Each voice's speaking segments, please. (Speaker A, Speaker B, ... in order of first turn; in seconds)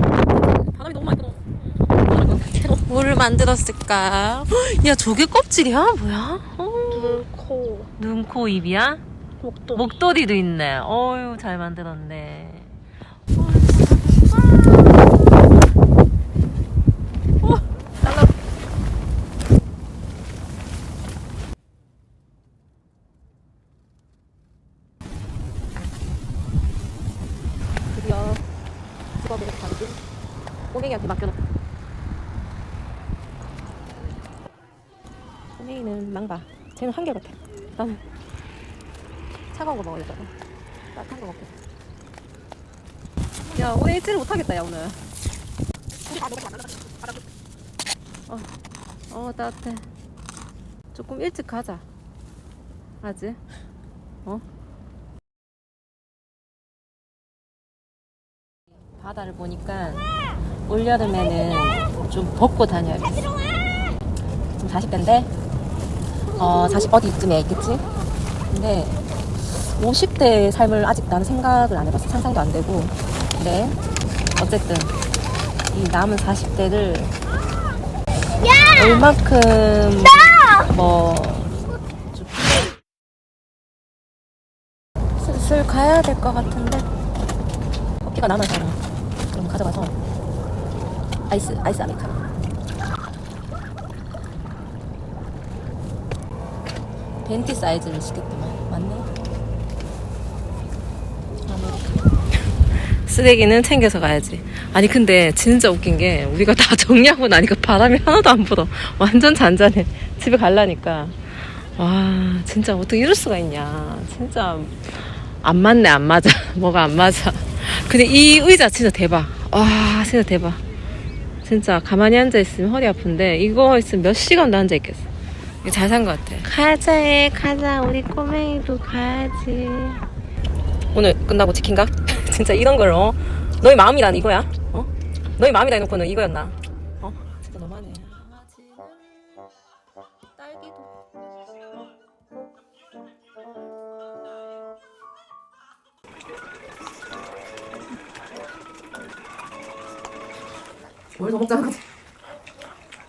Speaker A: 0.2-7.2, 8.0-9.0, 9.7-12.8, 13.3-15.0, 17.4-18.3, 27.9-28.4, 29.2-30.0, 30.7-31.4, 35.6-38.0, 39.5-40.3, 40.9-41.5, 43.5-45.0, 49.1-49.9, 50.9-51.9, 53.0-53.4, 58.9-60.1, 60.6-63.3, 64.6-65.3, 66.3-67.8, 68.5-73.8, 74.3-75.0, 75.7-77.2, 78.5-82.7, 85.2-86.9, 88.0-88.8, 89.3-89.9, 91.3-92.2, 97.2-99.1, 101.5-102.1, 102.8-120.6, 121.4-125.1, 125.6-130.0, 130.9-139.2, 140.4-140.9, 151.2-151.8
Speaker B: 6.9-7.9, 9.4-9.8, 46.1-46.8